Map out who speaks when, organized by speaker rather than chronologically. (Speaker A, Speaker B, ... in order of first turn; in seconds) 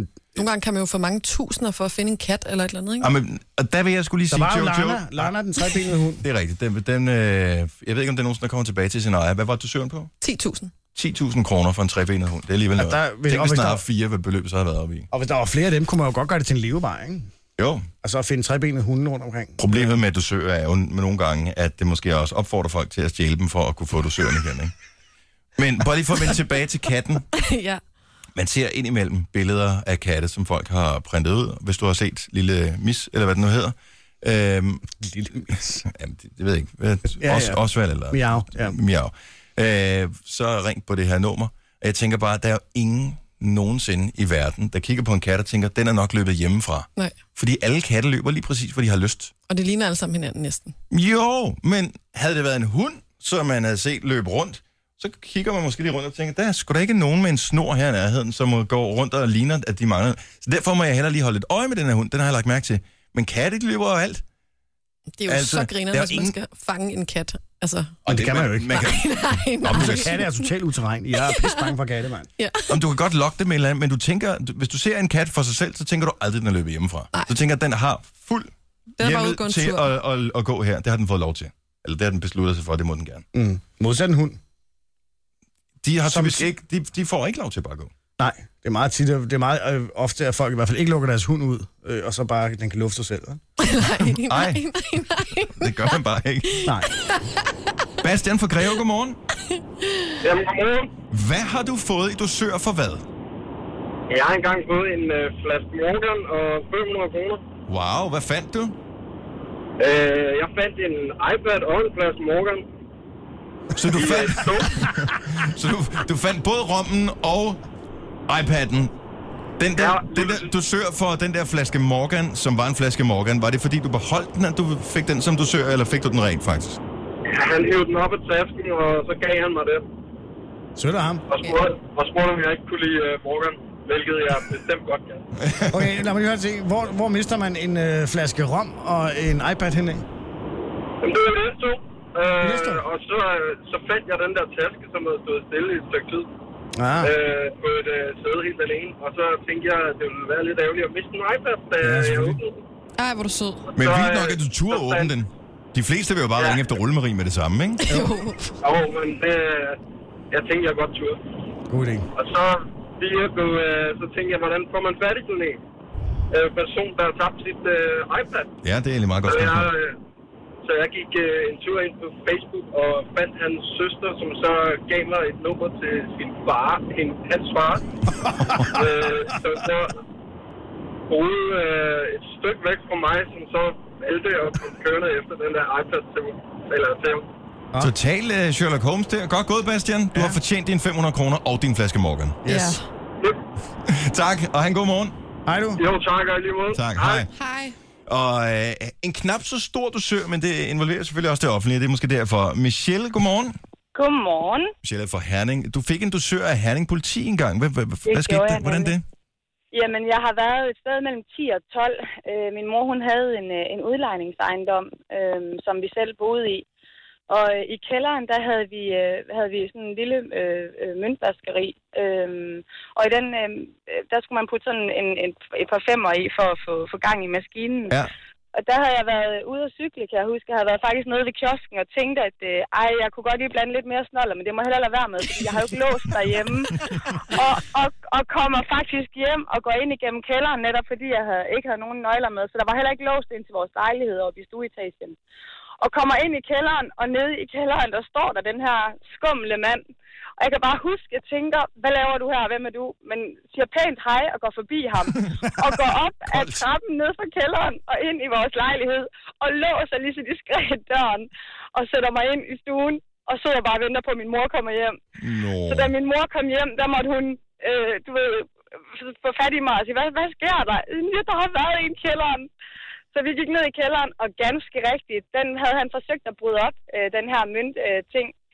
Speaker A: 0.3-3.1, 10.2-10.7, 27.3-27.8, 49.5-50.8, 65.2-68.0, 68.8-70.2, 71.2-71.7, 72.4-72.8, 79.0-79.9, 93.6-95.9, 96.5-97.5, 99.8-100.1, 153.0-153.7, 157.9-158.5, 192.5-192.8, 197.3-197.8
Speaker B: 3.0-5.3, 6.2-10.1, 10.9-15.1, 17.6-17.9, 19.6-24.7, 25.6-27.3, 28.3-34.9, 35.5-49.3, 50.9-64.2, 65.3-66.3, 68.0-70.3, 72.7-83.2, 85.8-87.9, 94.0-94.6, 95.5-96.7, 98.0-99.2, 101.1-103.0, 107.7-108.8, 113.7-117.6, 118.3-118.9, 119.6-126.8, 135.4-135.9, 153.8-157.8, 168.6-169.7, 187.8-192.4, 193.9-195.2, 196.7-197.3, 198.1-203.6, 204.8-209.0, 256.3-256.6, 265.2-265.9
Speaker C: 4.3-6.2, 12.8-13.8, 15.1-17.3, 18.0-19.9, 35.0-35.8, 37.0-38.8, 68.0-68.8, 69.8-72.3, 83.3-84.4, 86.0-86.5, 88.2-93.4, 130.8-131.2, 135.7-140.0, 142.4-142.8, 146.8-147.1, 151.8-152.4, 161.7-162.1, 178.2-178.7, 190.1-190.4, 192.4-192.8, 195.4-195.8
Speaker D: 100.2-100.9, 104.1-107.4, 109.8-112.6, 113.9-114.8, 119.8-120.5, 127.3-129.8, 131.3-135.2, 141.0-146.3, 147.0-152.6, 153.7-155.1, 158.6-159.8, 160.3-161.2, 162.2-165.6, 166.3-168.5, 169.2-169.9, 170.6-177.9, 178.7-180.0, 181.1-187.3, 195.8-197.3
Speaker E: 203.9-204.7, 208.1-208.9, 209.7-216.6, 217.3-228.0, 228.5-245.2, 245.8-249.8, 250.4-265.0, 265.6-272.5, 273.1-278.3